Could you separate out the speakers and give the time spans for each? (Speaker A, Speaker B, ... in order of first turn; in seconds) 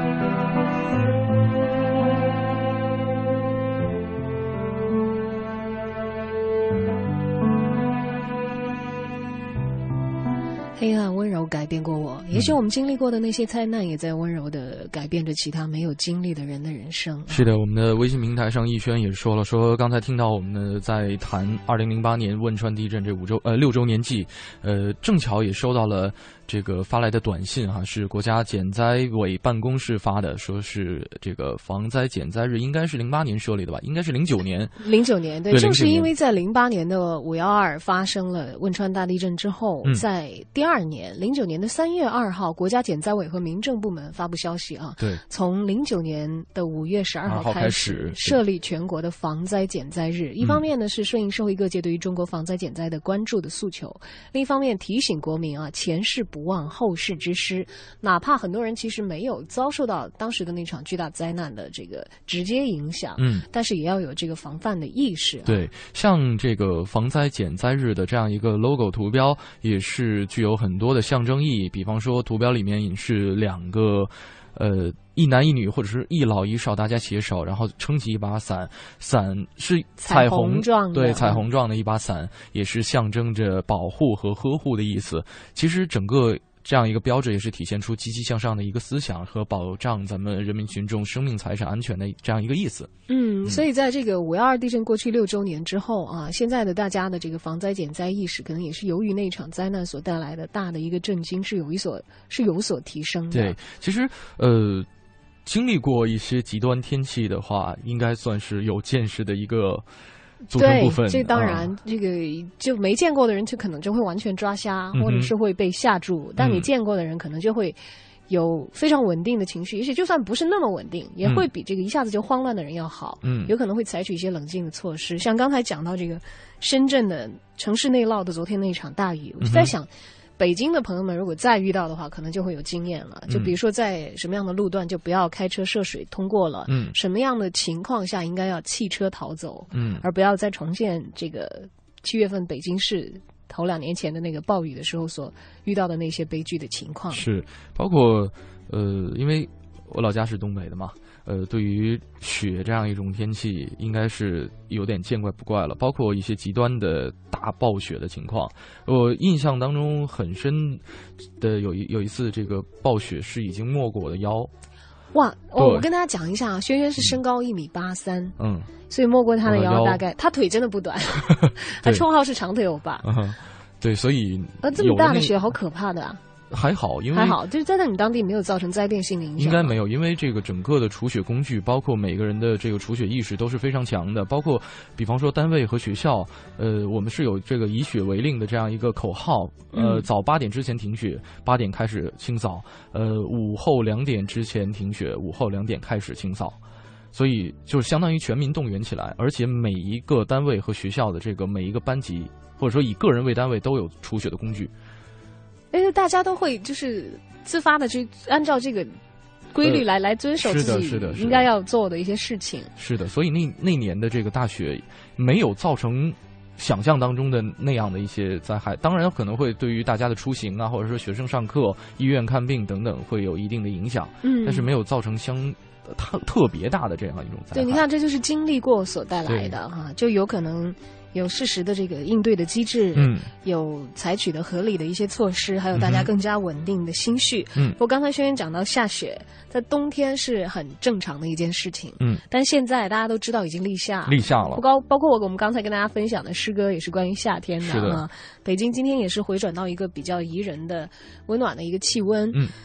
Speaker A: 10.8-17.4, 34.8-65.6, 80.0-81.5, 93.1-103.5, 110.5-147.2, 165.1-168.3, 168.9-173.1, 174.6-176.2, 177.1-179.8, 189.7-190.1, 205.7-209.0, 209.5-212.7, 224.2-224.7, 227.5-252.4
Speaker B: 17.3-34.7, 35.5-36.1, 47.2-48.4, 63.2-63.5, 65.5-92.9, 103.3-104.9, 105.5-109.8, 110.5-111.7, 114.9-115.3, 116.4-116.7, 123.2-123.5, 129.4-129.7, 133.3-133.5, 136.7-136.9, 139.7-140.0, 147.1-160.8, 161.4-164.5, 165.6-165.8, 168.4-168.7, 169.4-170.0, 171.4-172.0, 173.0-175.4, 176.5-177.4, 179.4-196.6, 197.1-204.7, 210.4-211.5, 212.8-227.8, 229.3-229.5, 232.9-233.3, 235.8-236.1, 244.1-244.6, 247.6-248.0